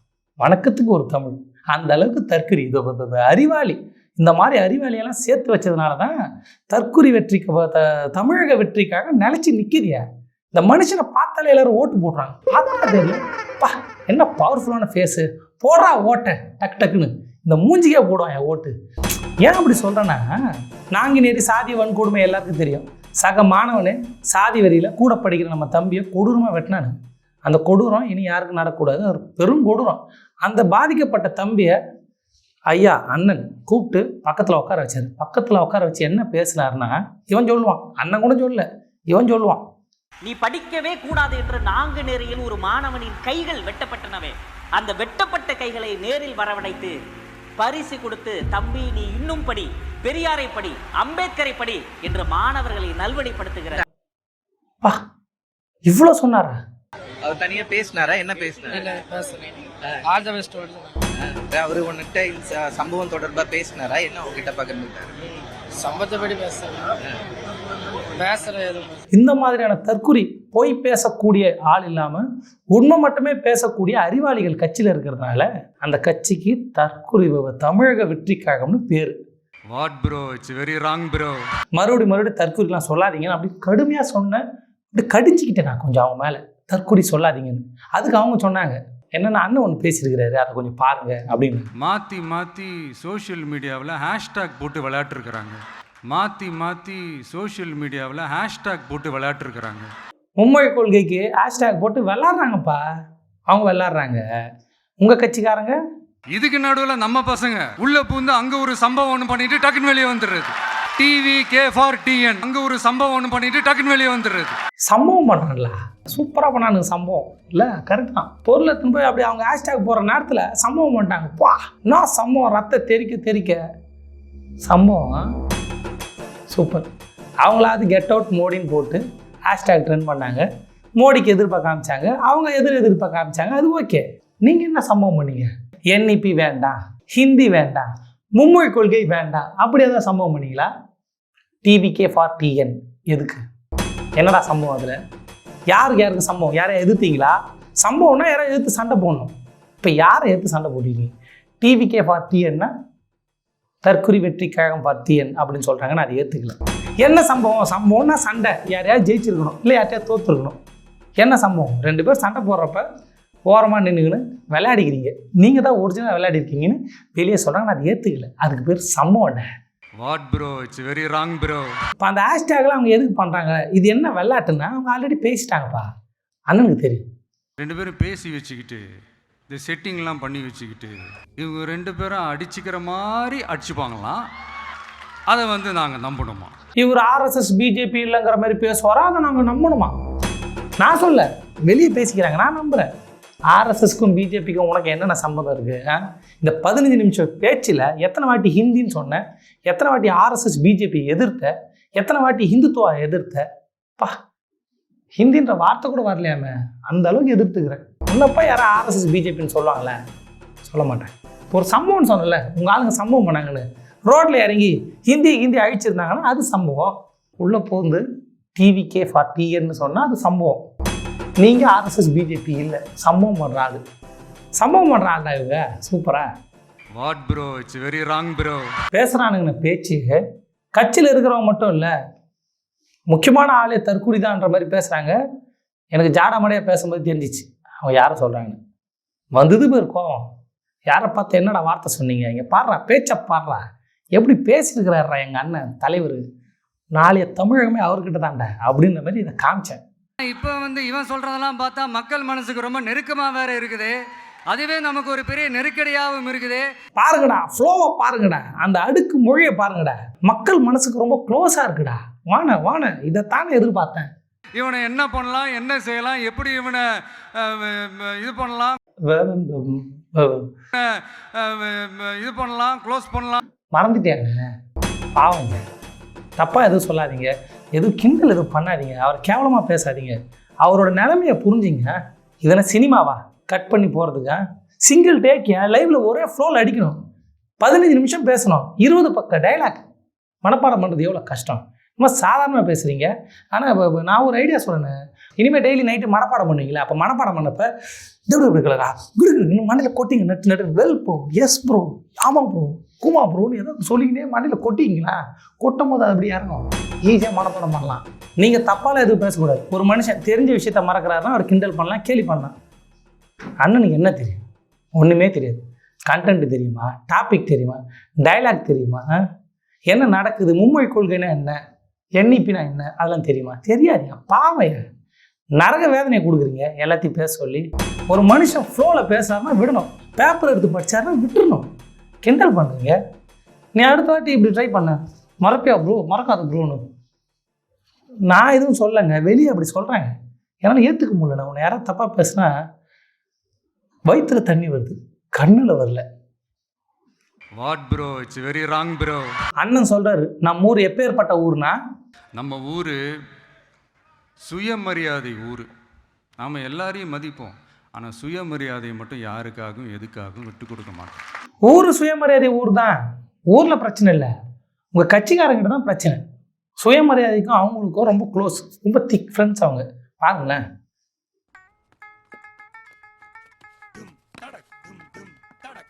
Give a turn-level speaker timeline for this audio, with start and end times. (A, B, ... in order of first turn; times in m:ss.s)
0:00.4-0:06.2 A
0:06.7-0:18.7 A
0:19.4-0:20.3 A
0:20.9-0:26.9 A
0:27.4-0:31.8 A
0:32.7-0:39.6 A
0:40.2-0:47.0 B
0:47.6-0:53.8 B
0:55.9-0:56.6 A
0:57.3-0:58.6 C
0:58.6-1:00.9 D
1:01.5-1:05.1 C
1:05.7-1:06.9 D
1:08.1-1:09.0 D
1:09.1-1:19.2 A
1:19.7-1:21.4 E
1:21.7-1:24.4 A
1:24.9-1:31.7 A
1:31.8-1:35.6 E
1:36.1-1:39.9 E
1:40.4-1:42.8 A
1:43.5-1:44.2 A
1:45.0-1:45.8 A
1:46.3-1:54.6 E
1:54.9-2:03.6 A
2:04.6-2:05.3 A
2:06.5-2:06.8 A
2:07.4-2:10.4 A
2:11.0-2:20.7 A
2:21.6-2:23.4 A
2:24.2-2:24.9 A
2:25.7-2:32.7 A
2:33.8-2:40.6 A
2:41.2-2:42.8 A
2:43.4-2:49.5 A
2:50.0-2:51.6 E
2:52.0-2:55.9 A
2:56.5-2:57.0 A
2:57.6-2:58.8 E
2:59.5-3:04.2 E
3:05.3-3:06.5 E
3:06.8-3:10.0 A
3:10.8-3:12.9 A
3:13.5-3:23.4 A
3:25.2-3:30.0 A
3:30.6-3:38.0 A
3:38.5-3:40.6 A
3:41.4-3:43.8 A
3:44.6-3:46.3 A
3:46.9-3:48.6 E
3:48.9-3:50.2 A
3:50.8-3:51.9 A
3:53.1-3:55.2 A
3:55.9-3:58.6 A
3:59.4-4:00.2 A
4:00.9-4:03.6 A
4:04.1-4:06.2 A
4:06.9-4:09.8 A
4:10.2-4:13.9 E
4:14.5-4:16.6 E
4:17.0-4:24.1 A
4:24.6-4:26.8 E
4:27.4-4:28.8 E
4:29.1-4:30.4 A
4:31.4-4:33.4 E
4:33.7-4:34.4 A
4:35.2-4:35.6 A
4:36.4-4:47.0 A
4:47.6-4:49.8 A
4:50.4-4:57.7 A
4:58.3-5:12.5 A
5:13.6-5:14.4 A
5:15.0-5:19.2 A
5:19.9-5:21.6 A
5:22.2-5:24.8 A
5:25.6-5:31.7 A
5:32.2-5:33.0 A
5:33.7-5:36.8 A
5:38.3-5:40.1 A
5:40.6-5:42.5 A
5:44.1-5:46.0 A
5:47.6-5:49.2 E
5:49.6-5:51.8 A
5:52.4-5:53.0 E
5:54.4-5:55.6 E
5:56.4-6:01.2 E
6:01.6-6:03.0 A
6:03.5-6:04.3 A
6:04.9-6:06.2 A
6:06.8-6:10.6 A